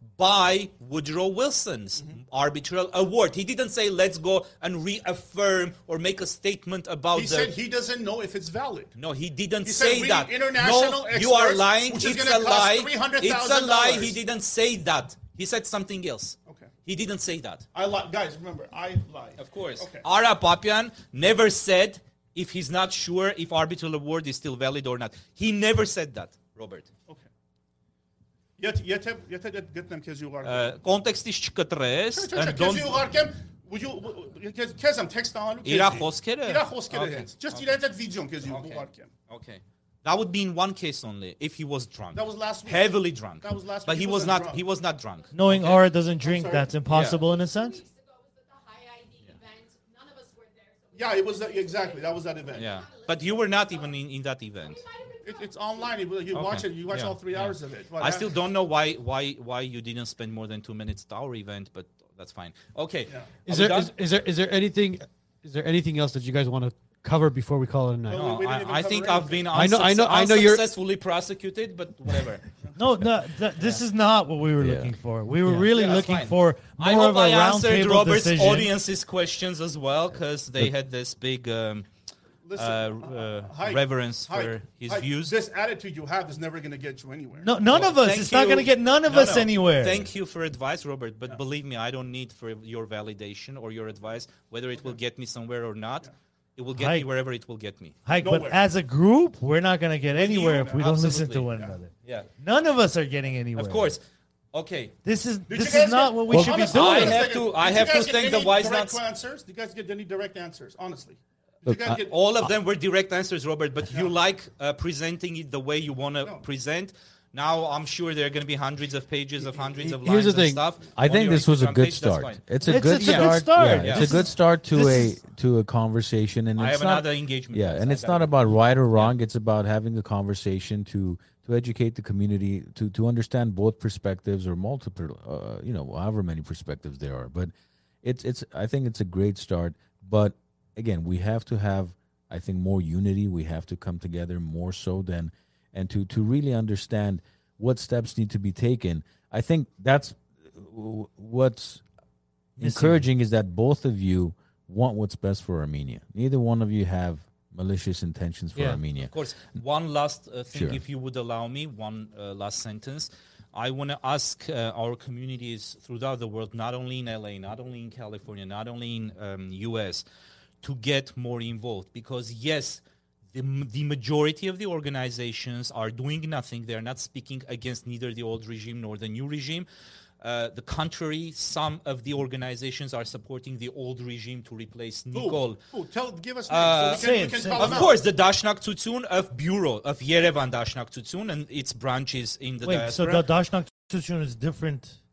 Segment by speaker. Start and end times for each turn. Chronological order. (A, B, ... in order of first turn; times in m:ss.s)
0:00.2-0:07.5 A
0:07.1-0:08.9 B
0:09.0-0:17.6 A
0:09.6-0:14.2 B
0:17.7-0:20.0 B
0:19.4-0:26.9 A
0:28.6-0:30.7 B
0:30.4-0:32.9 A
0:32.1-0:39.1 B
0:35.6-0:37.7 A
0:38.4-0:45.8 A
0:42.1-0:44.6 B
0:45.2-0:45.6 C
0:45.3-0:47.8 D
0:46.2-0:46.7 B
0:46.2-0:53.9 C
0:46.9-0:47.2 A
0:50.9-0:52.7 B
0:52.5-0:54.8 A
0:54.6-0:56.0 C
0:55.2-0:58.3 B
0:56.3-1:03.9 A
1:03.4-1:08.3 E
1:08.1-1:09.5 B
1:08.1-1:12.4 A
1:09.5-1:10.6 E
1:12.8-1:18.7 D
1:14.6-1:14.9 F
1:15.7-1:21.9 A
1:22.4-1:27.5 B
1:22.6-1:25.3 A
1:27.4-1:30.1 D
1:27.7-1:38.0 A
1:36.7-1:37.1 D
1:38.0-1:43.9 D
1:38.2-1:38.6 B
1:40.2-1:41.5 A
1:40.5-1:40.8 B
1:43.5-1:45.0 A
1:45.0-1:47.3 D
1:45.5-1:52.1 B
1:46.6-1:49.0 A
1:51.7-1:52.0 F
1:51.8-2:02.4 A
1:59.8-2:00.6 E
2:01.0-2:17.5 F
2:02.6-2:05.2 D
2:02.9-2:03.4 E
2:03.8-2:04.2 A
2:06.6-2:09.1 A
2:18.0-2:31.8 F
2:32.6-2:39.1 F
2:32.6-2:33.0 D
2:39.1-2:50.0 A
2:40.5-2:40.8 F
2:50.6-2:52.8 A
2:53.3-2:59.7 A
3:00.2-3:05.6 A
3:05.1-3:08.0 B
3:06.5-3:13.2 A
3:07.0-3:07.8 D
3:12.6-3:15.0 D